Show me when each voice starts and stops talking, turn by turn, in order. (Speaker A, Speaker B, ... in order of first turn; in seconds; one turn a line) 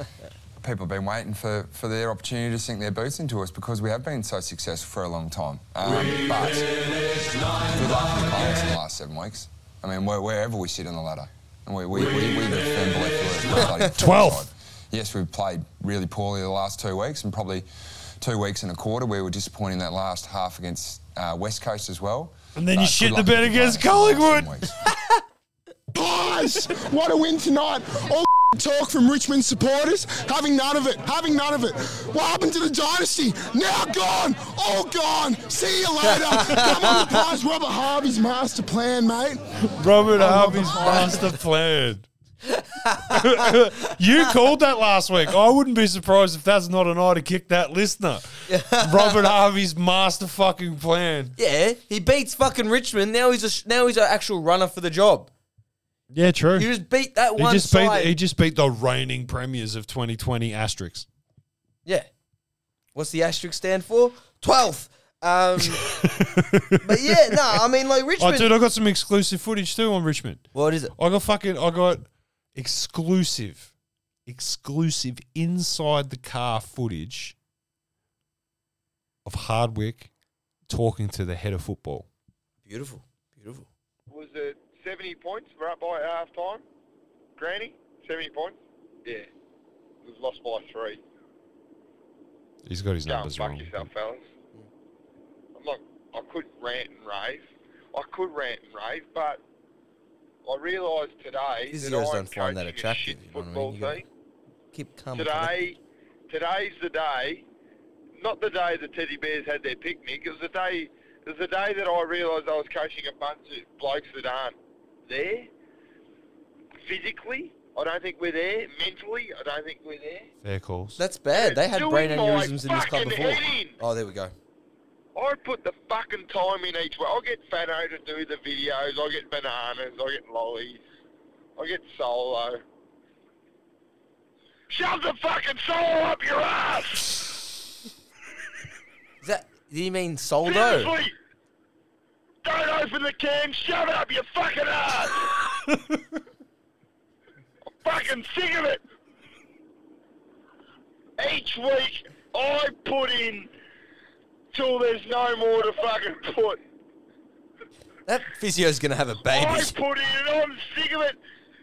Speaker A: 0.6-6.9
Speaker A: 7.7-17.6
Speaker B: 13.9-14.4
Speaker A: 18.2-24.7
Speaker B: 22.6-24.6
Speaker C: 25.9-39.5
Speaker D: 36.1-37.2
Speaker B: 39.7-42.0
Speaker D: 40.2-41.3
Speaker D: 42.5-43.5
Speaker B: 43.1-51.3
Speaker D: 48.5-49.3
Speaker D: 51.4-55.3
Speaker B: 56.1-56.7
Speaker D: 56.5-58.1
Speaker B: 57.4-61.0
Speaker D: 62.9-65.9
Speaker B: 65.7-67.5
Speaker D: 66.8-68.5
Speaker B: 68.2-73.7
Speaker D: 70.5-70.9
Speaker B: 74.2-77.3
Speaker B: 79.2-80.1
Speaker B: 80.7-82.1
Speaker D: 82.7-83.7
Speaker E: 84.1-86.6
Speaker E: 87.4-89.3
Speaker E: 90.0-91.0
Speaker B: 92.7-93.9
Speaker E: 93.0-94.2
Speaker E: 95.5-99.4
Speaker E: 100.4-104.0
Speaker D: 101.7-104.0
Speaker D: 104.7-105.5
Speaker E: 105.1-105.8
Speaker E: 106.3-107.4
Speaker E: 108.2-114.5
Speaker E: 115.1-115.5
Speaker E: 116.8-120.3
Speaker B: 120.4-121.0
Speaker D: 121.0-124.3
Speaker E: 121.3-123.8
Speaker E: 125.1-130.8
Speaker E: 131.6-132.6
Speaker E: 134.7-137.3
Speaker D: 139.2-140.9
Speaker E: 140.4-141.1
Speaker E: 142.4-145.3
Speaker E: 147.8-148.8
Speaker E: 151.2-153.5
Speaker E: 154.5-156.6
Speaker D: 158.1-159.7
Speaker E: 159.3-161.2